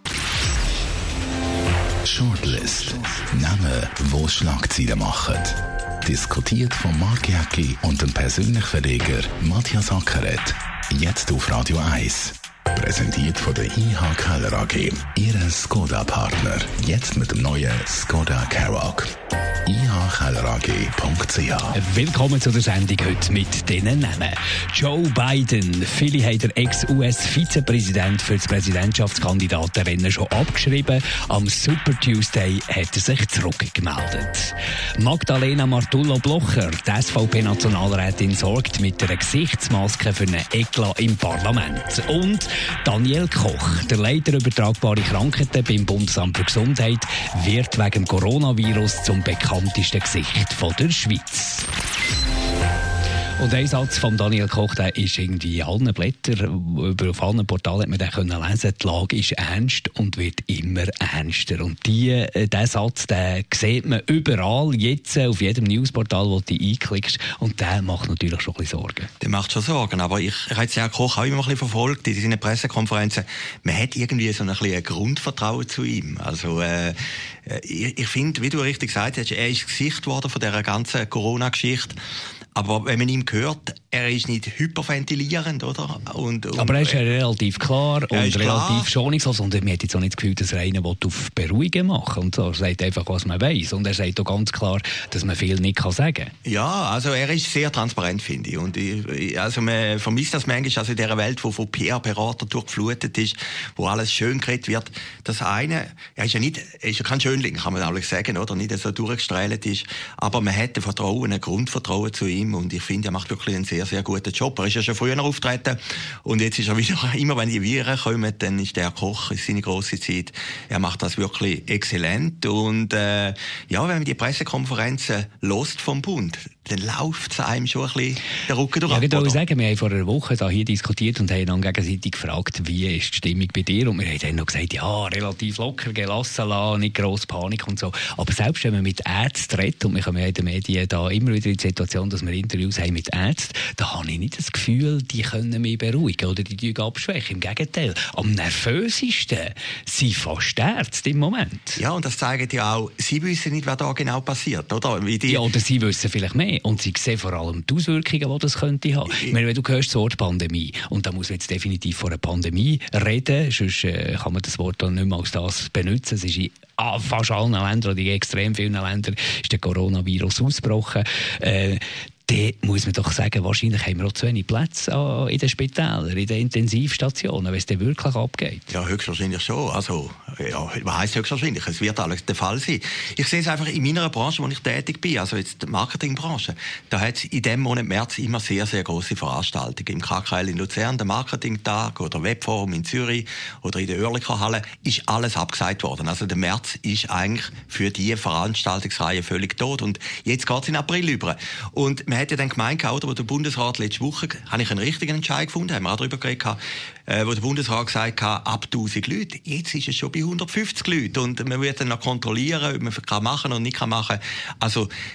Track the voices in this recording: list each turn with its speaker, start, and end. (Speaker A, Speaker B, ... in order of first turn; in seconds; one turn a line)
Speaker A: 2.0-19.1
Speaker A: 19.6-21.8
Speaker B: 21.7-51.7
Speaker B: 53.4-69.1
Speaker C: 69.2-82.0
Speaker C: 82.5-87.0
Speaker B: 86.5-96.3
Speaker C: 88.1-88.9
Speaker C: 96.4-129.4
Speaker B: 128.8-151.8
Speaker C: 151.8-155.4
Speaker B: 155.2-178.7
Speaker C: 159.1-159.3
Speaker C: 178.7-214.9